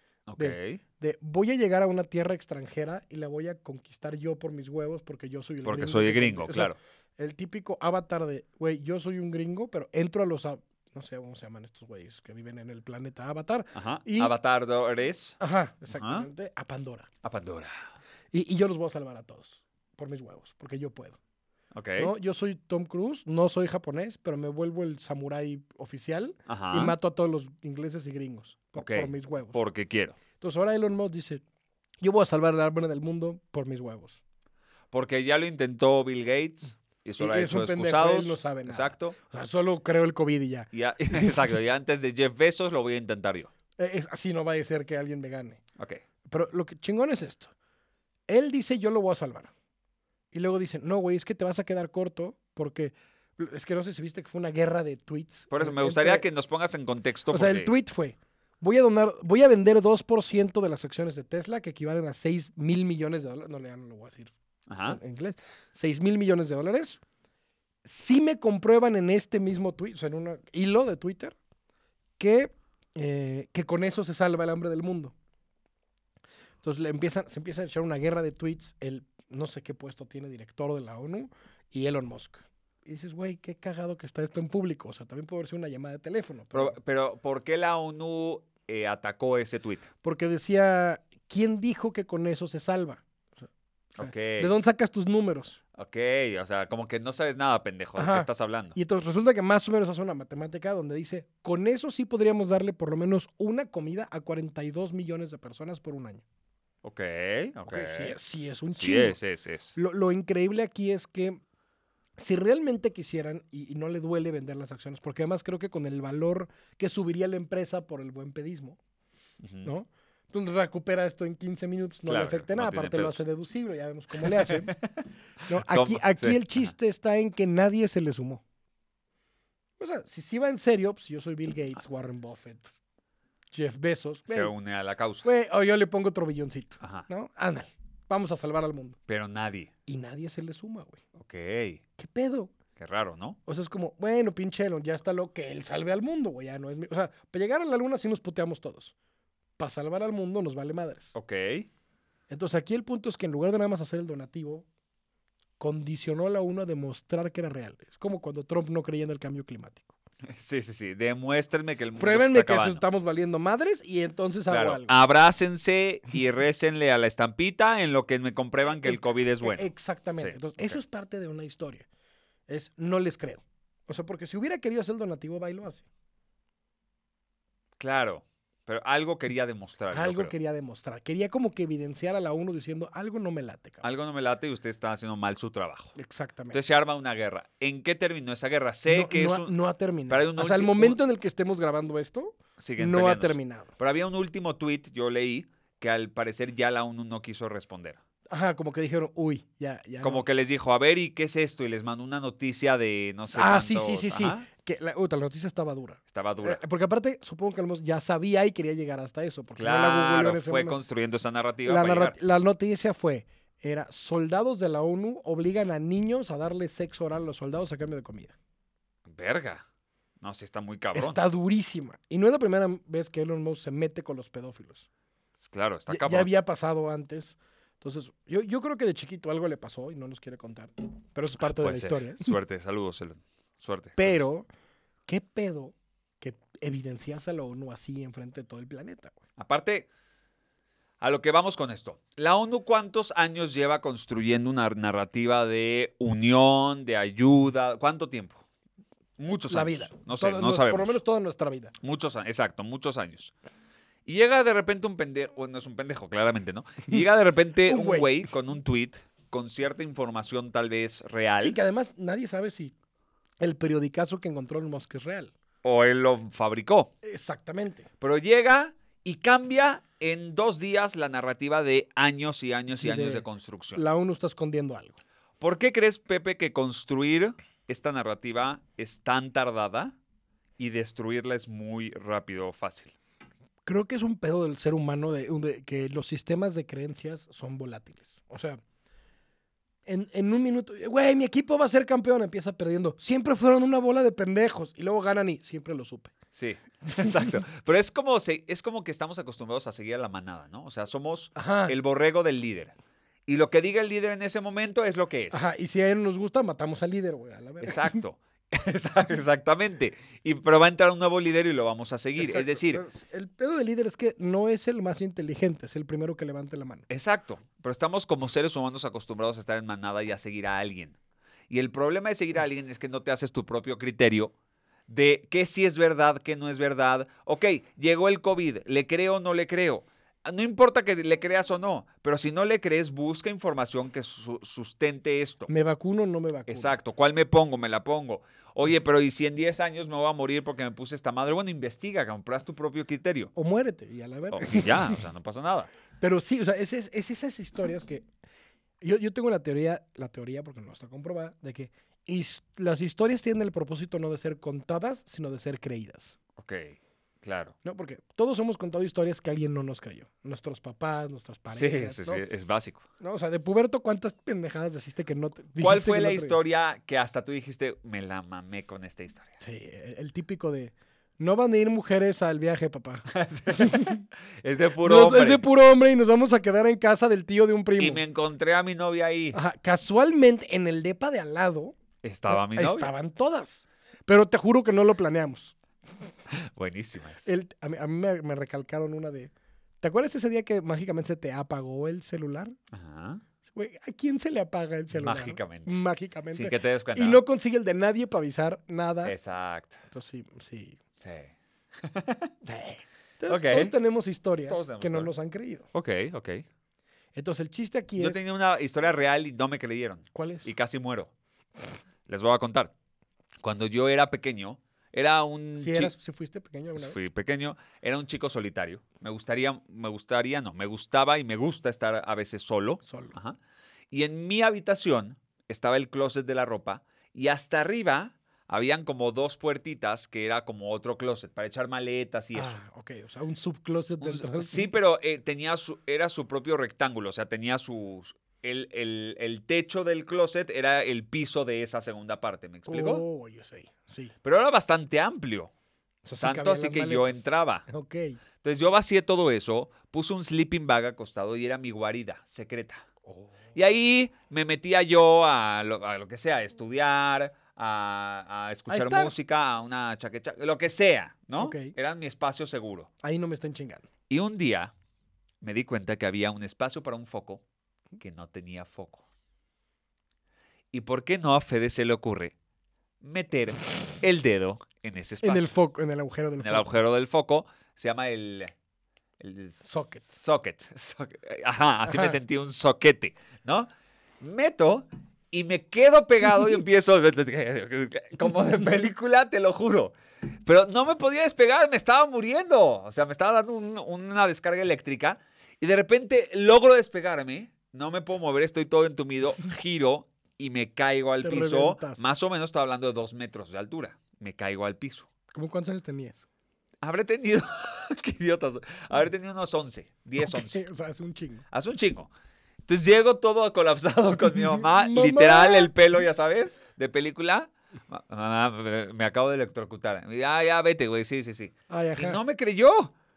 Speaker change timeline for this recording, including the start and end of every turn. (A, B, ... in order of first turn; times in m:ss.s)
0:00.3-0:00.8 A
0:00.4-0:14.3 B
0:05.6-0:06.8 A
0:13.7-0:15.4 A
0:15.4-0:17.1 B
0:15.9-0:16.3 A
0:17.2-0:17.8 A
0:18.3-0:21.2 B
0:21.7-0:22.1 A
0:22.0-0:29.6 B
0:26.5-0:27.0 A
0:28.8-0:30.2 A
0:30.4-0:31.4 B
0:32.0-0:34.2 B
0:34.9-0:39.2 A
0:37.2-0:41.5 B
0:40.7-0:43.5 A
0:43.8-0:45.6 B
0:46.3-0:47.5 B
0:48.3-0:49.5 B
0:50.3-0:56.2 B
0:55.5-0:57.7 A
0:57.3-1:04.3 B
1:04.7-1:05.0 A
1:04.9-1:07.0 B
1:07.8-1:11.4 B
1:12.2-1:15.1 B
1:16.6-1:26.8 B
1:26.5-1:29.9 A
1:30.0-1:33.5 B
1:34.0-1:34.5 A
1:34.0-1:35.6 B
1:35.7-1:38.8 A
1:38.0-1:46.2 B
1:46.8-1:48.1 A
1:47.7-1:49.2 B
1:48.7-1:49.8 A
1:49.7-1:51.4 B
1:52.2-1:58.8 B
1:59.4-1:59.7 A
1:59.6-2:04.7 B
2:02.0-2:03.2 A
2:04.2-2:04.9 A
2:05.5-2:08.4 B
2:05.5-2:06.6 A
2:09.8-2:12.8 B
2:13.5-2:14.5 B
2:14.3-2:15.2 A
2:15.2-2:19.0 B
2:16.8-2:17.1 A
2:19.1-2:19.7 A
2:19.9-2:21.0 B
2:21.1-2:21.8 A
2:22.0-2:22.5 B
2:22.8-2:23.4 A
2:23.4-2:28.9 B
2:29.6-2:31.1 B
2:31.1-2:31.7 A
2:32.3-2:34.6 B
2:35.6-2:39.9 B
2:40.3-2:42.8 A
2:42.0-2:44.9 B
2:44.5-2:50.8 A
2:48.8-2:51.9 B
2:52.5-2:55.8 B
2:57.8-3:00.3 A
2:59.9-3:03.8 B
3:03.8-3:05.9 A
3:06.0-3:06.6 B
3:06.5-3:09.5 A
3:08.9-3:13.7 B
3:10.1-3:11.0 A
3:12.6-3:18.0 A
3:18.3-3:20.2 B
3:20.0-3:24.4 A
3:23.2-3:30.8 B
3:26.1-3:26.6 A
3:29.6-3:32.2 A
3:31.6-3:38.3 B
3:39.1-3:39.6 A
3:40.2-3:41.2 A
3:40.9-3:44.9 B
3:45.4-3:46.3 A
3:45.9-3:52.4 B
3:51.5-3:54.2 A
3:54.0-3:54.5 B
3:55.1-3:59.1 B
3:59.4-3:59.9 A
4:01.0-4:08.4 A
4:09.2-4:11.0 A
4:09.5-4:11.7 B
4:11.8-4:13.3 A
4:14.0-4:21.6 A
4:17.7-4:18.1 B
4:21.4-4:22.7 B
4:23.4-4:25.3 B
4:25.6-4:26.9 A
4:27.0-4:27.9 B
4:28.0-4:33.8 A
4:32.7-4:33.2 B
4:33.7-4:35.0 B
4:35.4-4:39.9 A
4:40.6-4:42.9 A
4:43.6-4:48.6 B
4:49.8-4:56.1 B
4:56.3-5:02.7 A
4:57.0-4:57.2 B
5:01.3-5:01.7 B
5:03.3-5:05.4 A
5:05.3-5:08.0 B
5:07.6-5:12.8 A
5:12.2-5:16.8 B
5:16.9-5:21.0 A
5:21.5-5:24.3 A
5:24.9-5:35.5 A
5:35.5-5:36.7 B
5:36.5-5:43.3 A
5:43.3-5:45.0 B
5:44.3-5:45.7 A
5:46.0-5:48.0 B
5:48.8-5:56.2 B
5:56.4-5:57.5 A
5:57.6-6:02.2 B
6:01.5-6:02.8 A
6:03.0-6:06.4 B
6:05.6-6:09.3 A
6:09.4-6:14.0 B
6:13.1-6:15.4 A
6:14.8-6:18.0 B
6:17.8-6:19.4 A
6:19.3-6:21.8 B
6:22.0-6:22.9 A
6:22.3-6:25.5 B
6:26.3-6:27.2 A
6:27.2-6:32.5 B
6:32.7-6:33.2 A
6:33.5-6:39.1 B
6:34.9-6:35.8 A
6:36.3-6:37.2 A
6:39.0-6:39.8 A
6:39.9-6:40.8 B
6:41.0-6:42.3 A
6:42.4-6:45.7 B
6:43.3-6:43.7 A
6:44.5-6:45.1 A
6:45.7-6:46.4 A
6:47.1-6:48.2 B
6:48.0-6:51.1 A
6:50.1-6:50.5 B
6:52.1-6:52.7 A
6:53.4-6:55.9 A
6:55.6-6:57.0 B
6:56.7-7:03.4 A
7:02.8-7:03.1 B
7:03.9-7:12.6 A
7:12.3-7:14.7 B
7:14.0-7:23.0 A
7:22.7-7:24.1 B
7:24.2-7:25.5 A
7:26.0-7:28.2 B
7:26.2-7:27.6 A
7:28.4-7:32.8 A
7:33.0-7:33.3 B
7:33.5-7:42.9 A
7:38.7-7:39.1 B
7:41.4-7:41.7 B
7:43.0-7:43.8 B
7:44.1-7:44.7 A
7:45.4-7:47.4 A
7:48.0-7:49.0 A
7:50.7-7:52.3 A
7:53.0-7:55.5 A
7:55.2-7:56.7 B
7:56.4-7:58.5 A
7:59.2-8:03.7 A
7:59.6-8:00.0 B
8:01.9-8:02.2 B
8:04.2-8:25.1 A
8:21.2-8:22.0 B
8:25.3-8:26.2 B
8:26.8-8:30.6 A
8:30.2-8:31.4 B
8:31.5-8:32.1 A
8:32.6-8:42.9 A
8:34.3-8:35.7 B
8:41.7-8:42.2 B